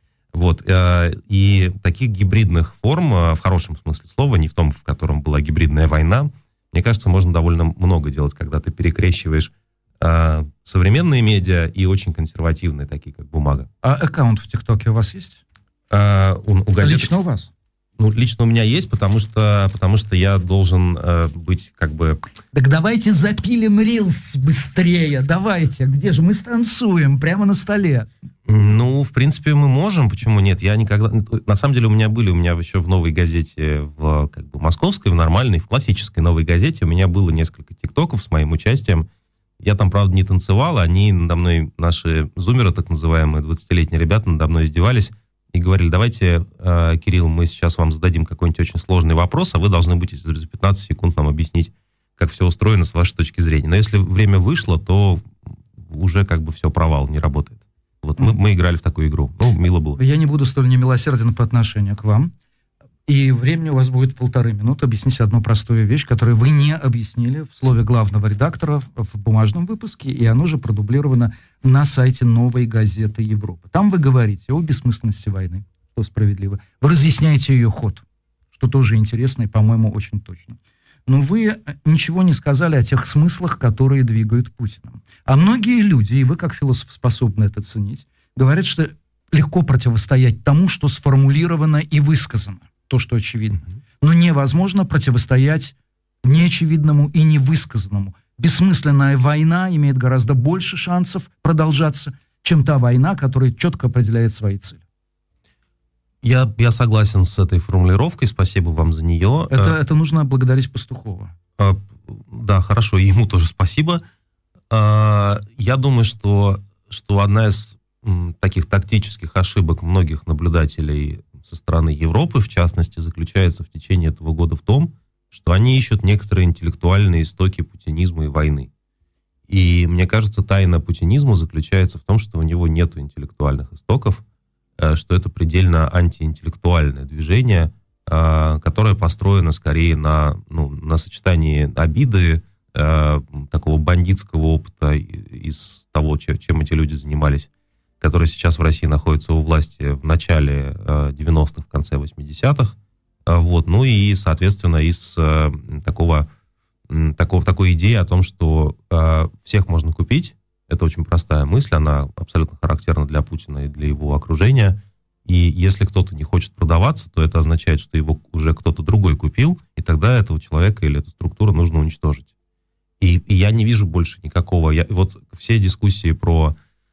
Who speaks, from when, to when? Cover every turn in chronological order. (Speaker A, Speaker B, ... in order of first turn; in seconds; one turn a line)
Speaker A: 0.3-13.7
Speaker B: 13.8-15.4
Speaker A: 15.9-17.1
Speaker B: 16.8-17.5
Speaker A: 18.0-22.2
Speaker B: 22.5-28.1
Speaker A: 28.5-39.1
Speaker A: 39.6-60.0
Speaker B: 60.0-62.3
Speaker B: 63.0-78.0
Speaker B: 78.5-104.8
Speaker A: 106.2-109.8
Speaker B: 109.5-111.3
Speaker A: 111.6-114.0
Speaker A: 114.7-128.7
Speaker A: 129.5-134.2
Speaker A: 134.8-147.5
Speaker A: 148.0-152.8
Speaker A: 153.3-156.3
Speaker A: 156.9-172.3
Speaker A: 173.0-176.6